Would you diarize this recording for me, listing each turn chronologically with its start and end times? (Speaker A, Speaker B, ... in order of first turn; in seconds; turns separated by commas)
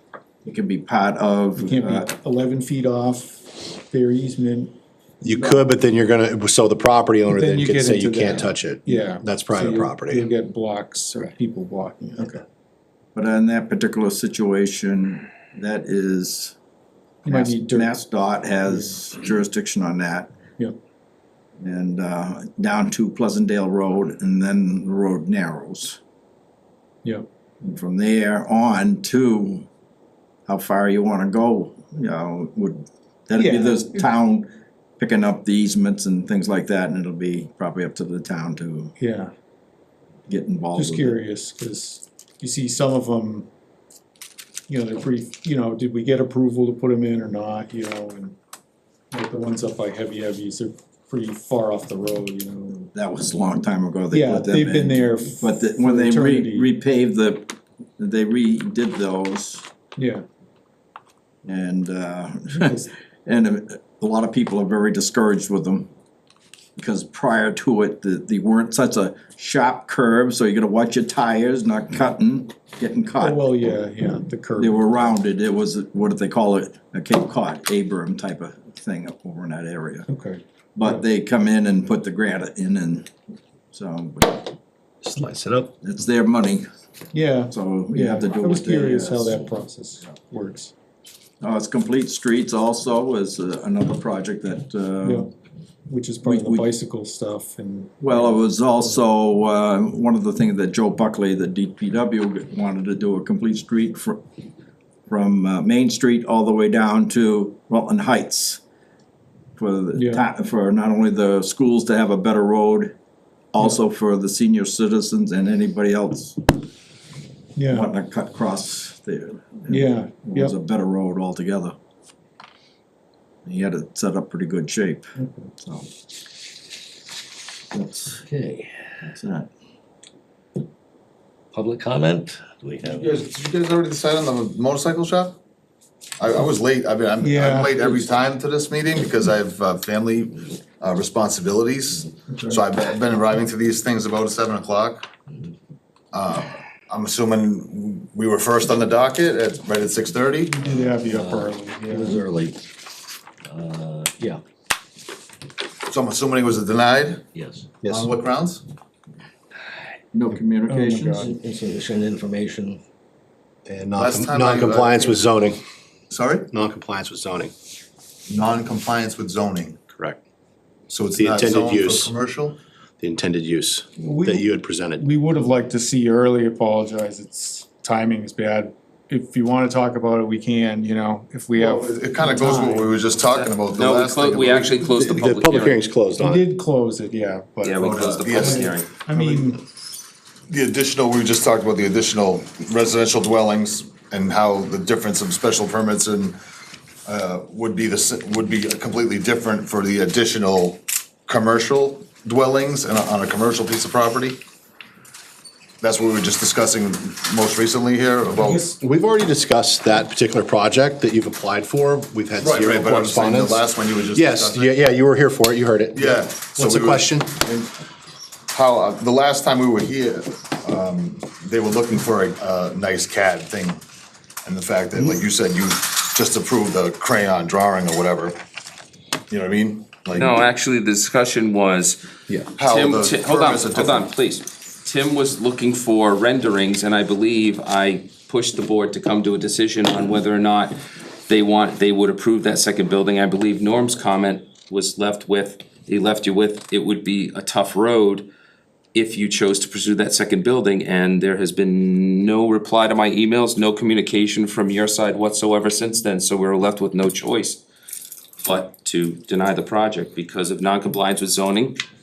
Speaker A: 0.4-2.1, Speaker B: 1.6-4.8, Speaker C: 5.2-10.2, Speaker B: 7.3-12.3, Speaker A: 12.2-12.4, Speaker A: 13.2-16.6, Speaker B: 17.2-18.0, Speaker A: 17.3-20.3, Speaker B: 18.7-18.9, Speaker A: 21.6-26.0, Speaker A: 27.6-29.7, Speaker A: 30.5-34.5, Speaker B: 33.4-34.0, Speaker A: 35.0-38.9, Speaker B: 39.0-39.3, Speaker A: 40.3-41.2, Speaker B: 40.7-43.5, Speaker B: 44.7-48.4, Speaker B: 49.1-52.9, Speaker A: 53.0-59.7, Speaker B: 54.1-56.7, Speaker B: 60.0-60.2, Speaker A: 61.4-65.9, Speaker B: 62.5-62.9, Speaker A: 66.8-73.6, Speaker B: 73.2-74.8, Speaker A: 74.6-80.1, Speaker B: 80.1-81.0, Speaker A: 80.8-83.1, Speaker A: 83.7-84.5, Speaker C: 85.1-85.7, Speaker A: 85.8-86.7, Speaker B: 87.1-90.7, Speaker A: 87.5-89.5, Speaker A: 91.4-95.3, Speaker B: 95.0-95.3, Speaker B: 95.9-99.0, Speaker A: 96.2-96.7, Speaker A: 98.0-104.2, Speaker A: 105.1-108.6, Speaker A: 109.6-113.0, Speaker B: 110.0-110.2, Speaker A: 113.5-116.4, Speaker B: 117.6-117.9, Speaker A: 117.7-121.8, Speaker B: 119.7-120.5, Speaker A: 123.5-125.1, Speaker B: 125.2-125.5, Speaker A: 125.6-125.9, Speaker A: 127.7-128.2, Speaker D: 128.2-128.8, Speaker A: 129.1-129.5, Speaker D: 131.5-133.2, Speaker E: 132.9-135.4, Speaker E: 136.2-145.1, Speaker B: 137.2-137.8, Speaker E: 146.1-150.6, Speaker B: 150.5-152.3, Speaker D: 150.6-152.6, Speaker D: 153.5-154.4, Speaker E: 155.9-157.2, Speaker D: 157.3-157.8, Speaker C: 157.8-158.1, Speaker E: 157.9-158.6, Speaker A: 160.1-161.3, Speaker B: 160.7-161.3, Speaker D: 161.1-162.8, Speaker C: 163.7-165.6, Speaker E: 164.0-165.2, Speaker E: 166.1-166.5, Speaker C: 166.5-167.5, Speaker E: 168.3-169.8, Speaker E: 170.9-172.6, Speaker C: 171.1-172.1, Speaker C: 173.0-175.1, Speaker B: 174.0-183.0, Speaker E: 181.5-185.1, Speaker F: 183.2-185.8, Speaker C: 184.9-186.5, Speaker B: 186.2-189.6, Speaker F: 187.6-189.0, Speaker E: 187.8-189.5, Speaker E: 190.5-196.4, Speaker E: 197.1-204.4, Speaker E: 205.8-208.7, Speaker B: 208.4-208.8, Speaker C: 208.7-213.6, Speaker E: 212.4-214.7, Speaker C: 214.1-217.3, Speaker E: 215.9-217.7, Speaker E: 218.5-223.8, Speaker E: 224.4-228.4, Speaker E: 229.3-230.4, Speaker F: 230.1-248.3, Speaker E: 232.6-234.1, Speaker F: 248.9-257.6, Speaker F: 258.4-261.8